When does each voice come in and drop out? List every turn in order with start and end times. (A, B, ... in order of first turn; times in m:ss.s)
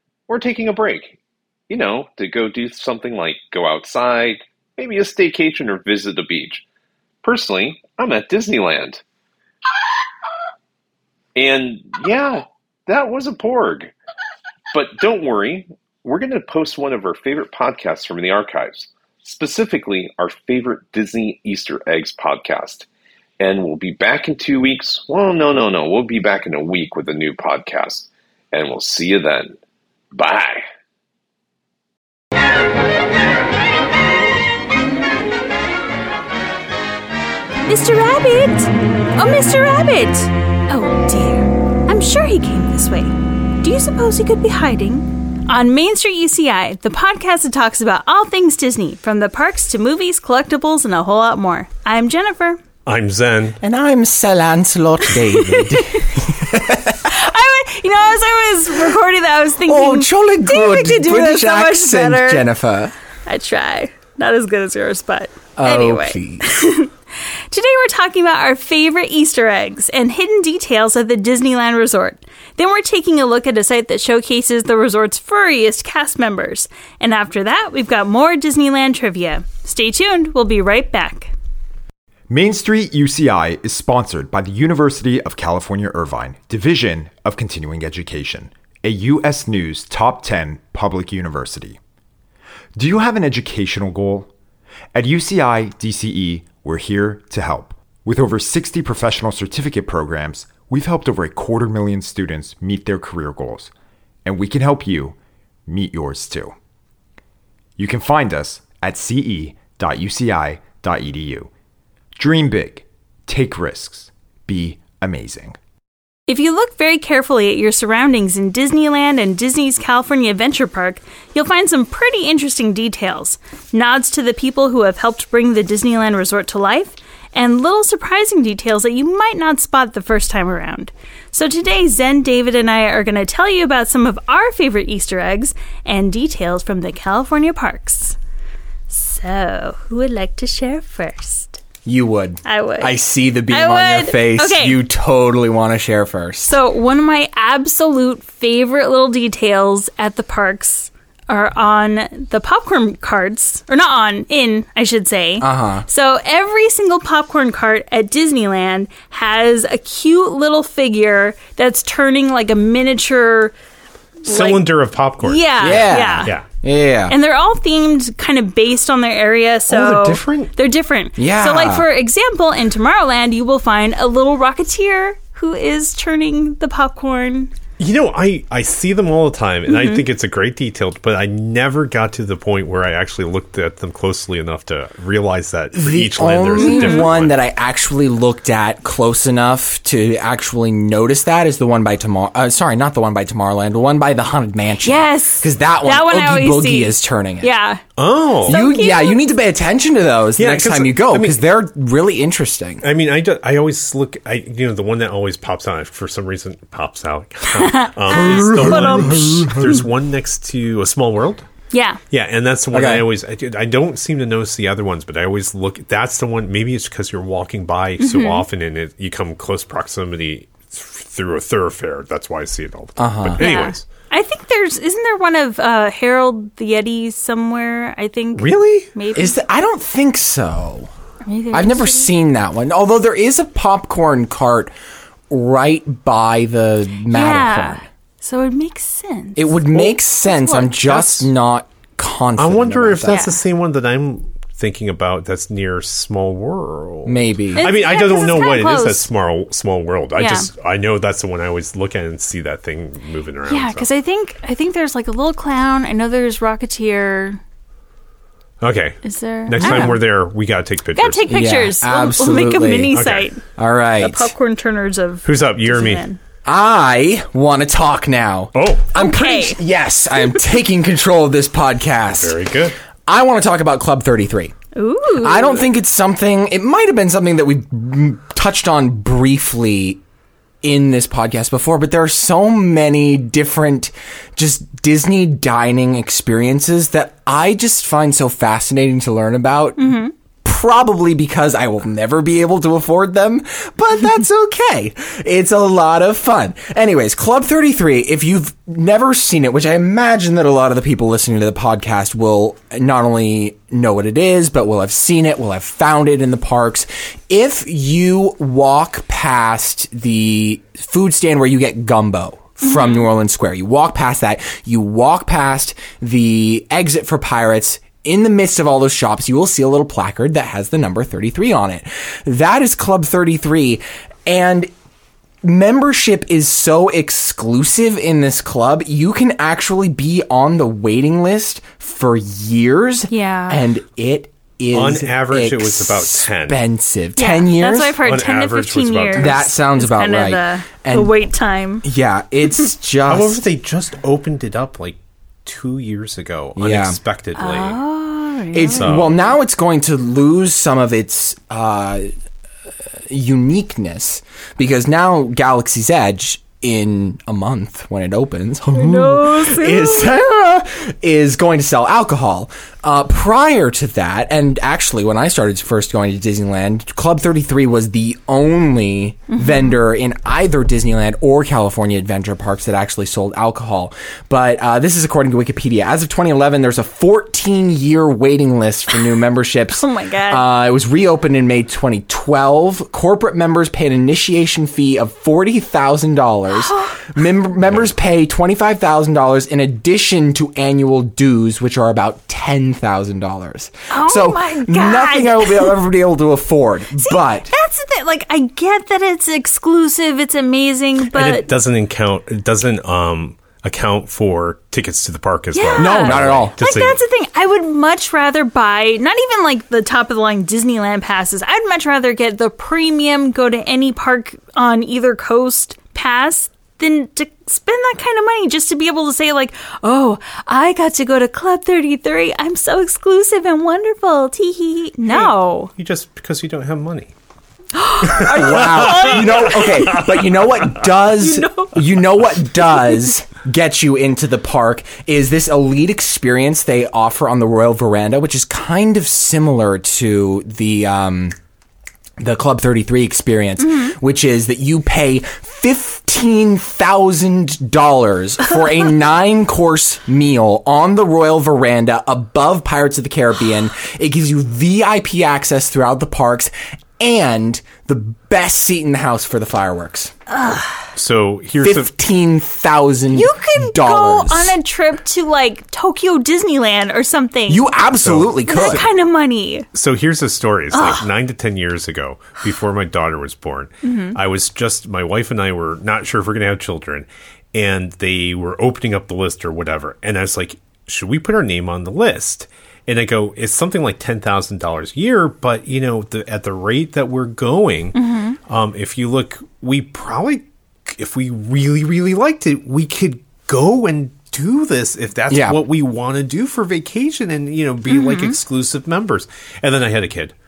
0:00.3-0:01.2 A
0:01.7-0:06.6 A
0:07.2-0:09.0 A
0:11.4-0:13.9 A
0:14.7-0:22.9 A
0:23.4-0:29.6 A
0:30.1-0:30.6 A
0:37.6-0:52.6 B
0:52.9-0:53.6 C
0:53.6-0:57.1 D
0:55.3-1:02.5 B
0:59.6-1:02.9 D
1:03.3-1:06.9 B
1:05.6-1:06.5 D
1:07.5-1:21.3 B
1:22.3-1:31.8 E
1:32.8-1:34.3 E
1:34.9-1:43.7 E
1:44.2-1:45.2 E
1:45.7-1:46.6 E
1:47.8-1:51.5 E
1:52.2-1:55.6 E
1:56.3-2:18.2 B
2:18.9-2:21.6 B
2:21.8-2:26.6 D
2:22.4-2:23.0 B
2:23.5-2:24.8 B
2:26.4-2:43.5 B
2:35.4-2:35.9 D
2:44.2-2:44.7 B
2:44.3-2:46.4 C
2:45.2-2:46.3 B
2:45.6-2:47.2 D
2:47.1-2:57.5 B
2:49.7-2:50.5 C
2:51.2-2:51.9 D
2:57.8-3:07.4 C
2:59.7-3:00.0 B
3:05.7-3:17.5 D
3:06.6-3:07.1 B
3:14.8-3:17.8 B
3:18.0-3:18.6 C
3:18.5-3:22.8 D
3:18.5-3:19.2 B
3:20.4-3:21.4 C
3:22.8-3:31.5 C
3:27.5-3:29.8 B
3:28.1-3:29.8 D
3:31.7-3:32.0 B
3:32.1-3:43.9 C
3:32.7-3:33.1 D
3:38.0-3:38.4 B
3:43.0-3:43.4 D
3:43.4-3:49.4 B
3:48.4-3:48.9 C
3:49.2-3:50.9 D
3:51.2-3:52.1 B
3:51.5-3:54.7 D
3:55.3-3:57.8 D
3:57.1-4:00.7 B
3:59.4-4:03.3 D
4:00.8-4:01.3 C
4:02.4-4:13.9 C
4:03.1-4:03.4 B
4:07.1-4:07.7 D
4:07.6-4:09.1 B
4:10.2-4:10.5 B
4:13.5-4:17.4 B
4:18.6-4:21.2 C
4:19.0-4:20.0 B
4:19.6-4:19.9 D
4:21.0-4:23.4 B
4:21.3-4:23.0 D
4:22.9-4:23.3 C
4:23.6-4:24.3 D
4:24.0-4:26.2 B
4:25.2-4:26.0 C
4:26.4-4:32.4 D
4:28.6-4:28.8 C
4:29.0-4:29.6 B
4:32.1-4:32.8 C
4:33.1-4:34.5 D
4:34.8-4:35.6 B
4:35.2-4:40.0 D
4:40.6-5:24.7 D
4:49.8-4:50.1 B
5:12.6-5:13.1 B
5:25.4-5:38.0 D
5:33.1-5:33.7 B
5:34.7-5:36.6 C
5:37.2-5:41.8 B
5:38.0-5:39.4 C
5:39.2-5:41.1 D
5:41.8-5:43.4 D
5:43.1-5:47.8 C
5:46.6-5:47.0 D
5:47.4-5:49.0 B
5:48.5-5:52.1 D
5:48.8-5:49.2 C
5:53.1-6:37.5 D
5:58.8-6:00.1 B
6:09.3-6:09.8 B
6:19.8-6:20.4 B
6:26.5-6:27.1 B
6:33.9-6:35.8 B
6:37.0-6:41.5 B
6:41.1-6:47.0 C
6:45.6-7:05.7 B
6:45.8-6:46.6 D
7:05.1-7:07.1 C
7:07.7-7:10.0 B
7:08.0-7:10.2 C
7:08.1-7:21.4 D
7:11.2-7:11.8 B
7:22.2-7:40.1 D
7:23.6-7:24.0 B
7:40.3-7:40.8 B
7:41.0-7:41.9 C
7:41.6-7:44.6 D
7:43.1-7:47.6 B
7:47.5-7:48.8 D
7:48.0-7:48.8 C
7:48.5-7:49.7 B
7:49.7-8:20.3 C
7:50.7-7:51.1 B
7:53.8-7:54.2 B
8:08.0-8:08.4 B
8:15.3-8:15.6 D
8:17.9-8:18.4 B